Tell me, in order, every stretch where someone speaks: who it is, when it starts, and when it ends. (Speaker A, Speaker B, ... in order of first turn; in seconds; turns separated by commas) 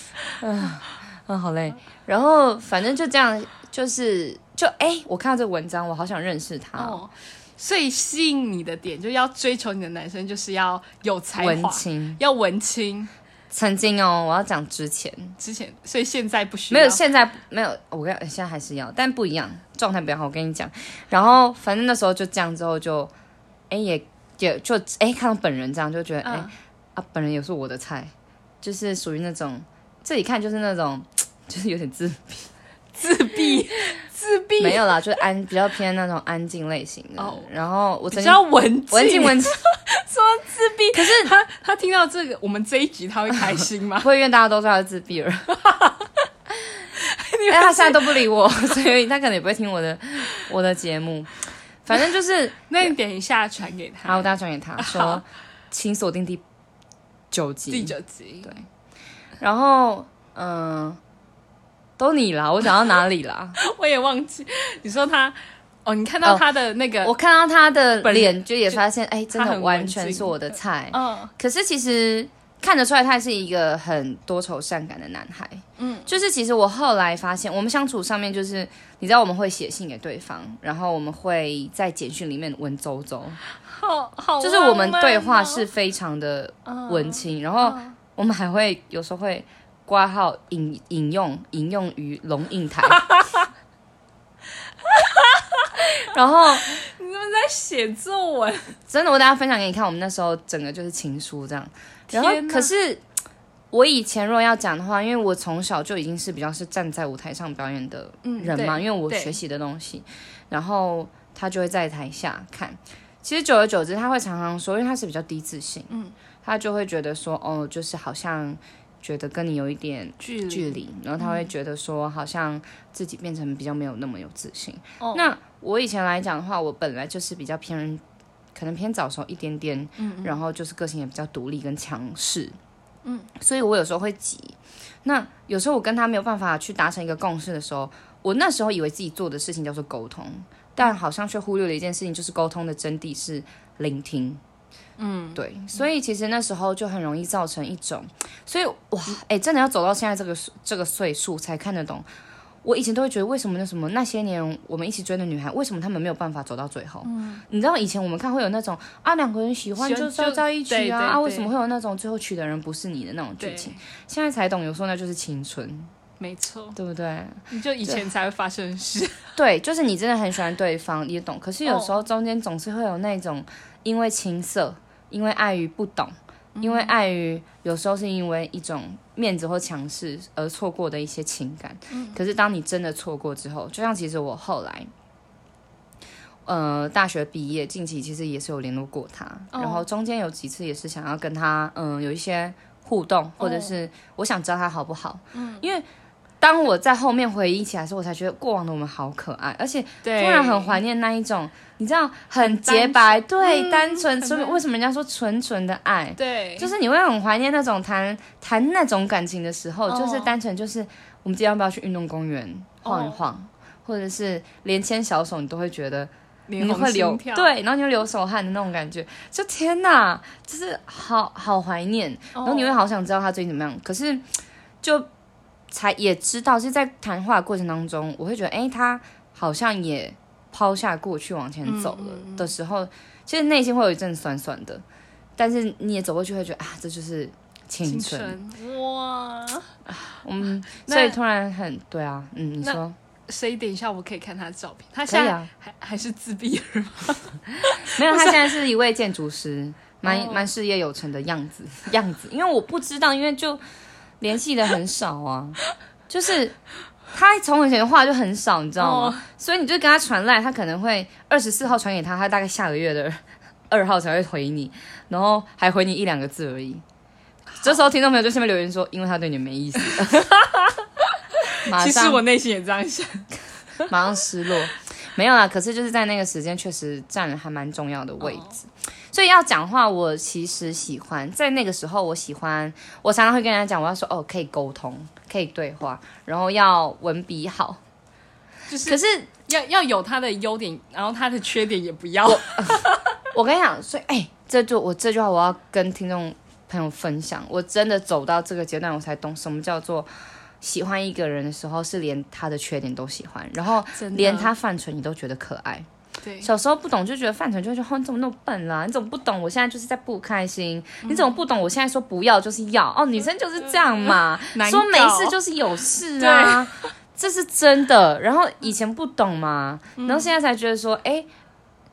Speaker A: 0.4-7.0, Speaker B: 6.8-13.1, Speaker A: 11.4-12.2, Speaker A: 13.5-15.3, Speaker B: 15.4-17.0, Speaker A: 16.7-23.1, Speaker A: 23.7-32.5, Speaker B: 26.2-26.5, Speaker B: 33.0-34.9, Speaker A: 34.6-39.6, Speaker B: 37.2-37.5, Speaker B: 38.1-44.1, Speaker A: 40.9-41.3, Speaker A: 44.0-45.5, Speaker B: 45.5-46.1, Speaker B: 46.9-48.3, Speaker A: 47.5-52.9, Speaker B: 52.7-55.2, Speaker A: 54.0-56.4, Speaker A: 57.3-57.9, Speaker B: 57.7-58.6, Speaker A: 59.4-61.0, Speaker A: 62.0-63.6, Speaker B: 63.6-67.1, Speaker A: 67.0-83.4, Speaker B: 68.0-71.3, Speaker B: 75.8-76.1, Speaker B: 83.6-85.7, Speaker A: 84.4-93.0, Speaker B: 86.7-88.0, Speaker B: 92.9-93.5, Speaker B: 94.8-95.9, Speaker A: 96.0-96.8, Speaker B: 96.5-98.8, Speaker A: 98.9-103.0, Speaker B: 102.1-102.7, Speaker A: 103.7-115.9, Speaker B: 108.2-109.4, Speaker B: 115.9-116.1, Speaker A: 116.4-128.0, Speaker B: 120.2-121.5, Speaker B: 125.0-125.3, Speaker A: 128.5-132.6, Speaker B: 130.0-130.4, Speaker B: 133.0-133.3, Speaker A: 133.4-144.4, Speaker B: 145.0-145.8, Speaker A: 145.3-152.0, Speaker A: 152.6-165.9, Speaker B: 157.0-157.4, Speaker B: 159.8-161.5, Speaker B: 163.4-163.8, Speaker B: 166.2-166.8, Speaker A: 166.8-168.0, Speaker B: 167.5-169.3, Speaker A: 169.4-184.9, Speaker B: 171.6-172.0, Speaker B: 176.6-176.9, Speaker B: 181.9-182.2, Speaker A: 186.4-195.8, Speaker B: 189.5-189.8, Speaker B: 193.4-193.7, Speaker B: 195.3-195.7, Speaker A: 196.4-224.3, Speaker B: 200.0-200.8, Speaker B: 202.4-204.6, Speaker B: 206.2-206.7, Speaker B: 209.9-210.3, Speaker B: 212.8-213.2, Speaker B: 216.5-217.5, Speaker B: 222.3-222.8, Speaker A: 224.8-225.1, Speaker A: 225.7-234.8, Speaker B: 231.6-232.5, Speaker A: 235.4-238.4, Speaker B: 237.8-239.7, Speaker A: 239.9-243.0, Speaker B: 240.9-241.2, Speaker B: 242.6-248.5, Speaker A: 245.1-245.5, Speaker A: 247.6-253.6, Speaker B: 250.0-250.5, Speaker A: 254.2-255.6, Speaker A: 256.1-256.6, Speaker A: 257.1-266.8, Speaker B: 258.8-259.2, Speaker A: 267.6-270.2, Speaker B: 269.8-273.9, Speaker A: 271.6-272.2, Speaker A: 273.9-287.8, Speaker B: 278.2-278.6, Speaker B: 288.7-293.1, Speaker A: 288.9-289.3, Speaker A: 292.2-300.1, Speaker A: 300.6-305.9, Speaker B: 303.9-304.5, Speaker B: 306.2-306.5, Speaker A: 306.4-321.3, Speaker B: 311.0-311.4, Speaker B: 313.7-315.4, Speaker B: 316.1-316.9, Speaker B: 320.0-320.3